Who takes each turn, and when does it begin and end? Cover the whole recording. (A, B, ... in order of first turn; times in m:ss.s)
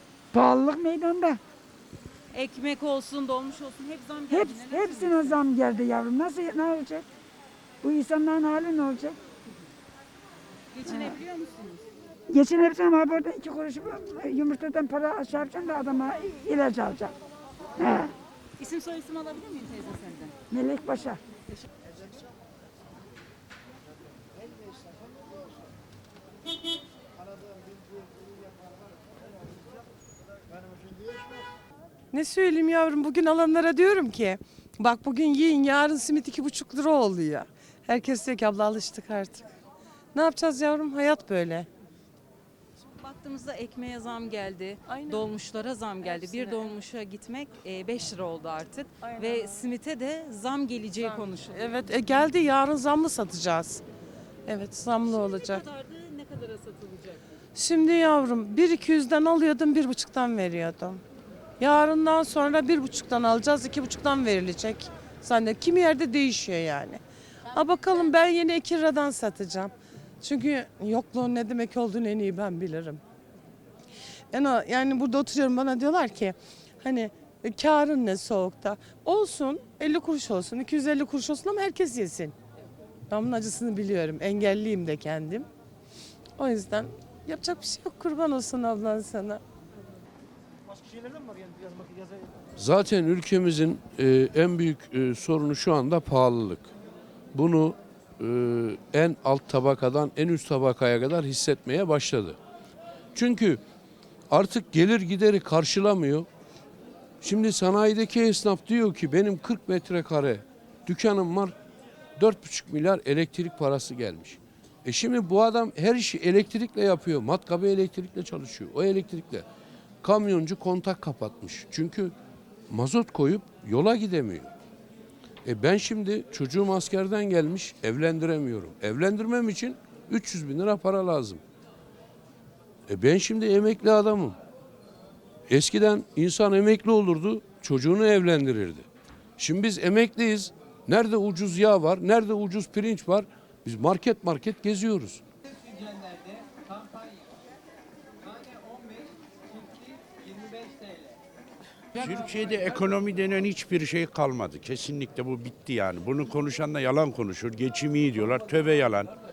0:00.3-0:01.4 A
0:02.3-0:05.4 B
0:04.3-0:07.1 A
0:07.8-0:09.2 A
0:10.7-0:11.8 B
0:10.9-0:11.2 A
0:12.3-0:17.1 A
0:17.8-0:18.1 A
0:18.6-0:20.4 B
0:20.5-0:21.2 A
0:32.1-0:39.5 C
0:40.1-0:41.7 C
0:43.0-0:52.0 B
0:44.9-0:45.3 C
0:46.1-0:46.7 C
0:49.0-0:49.5 C
0:51.0-0:53.8 C
0:54.5-0:55.6 C
0:55.0-0:57.2 B
0:57.6-1:01.0 C
1:01.6-1:13.0 C
1:14.3-1:22.4 C
1:23.1-1:25.5 C
1:26.4-1:29.4 C
1:32.6-1:36.7 D
1:37.3-1:42.4 D
1:43.2-1:43.6 D
1:44.3-1:46.3 D
1:47.2-1:51.6 D
1:52.2-1:59.5 D
2:00.0-2:02.1 D
2:02.7-2:04.5 D
2:05.4-2:11.4 D
2:12.9-2:14.4 D
2:15.5-2:18.9 D
2:19.4-2:25.2 D
2:32.0-2:39.1 E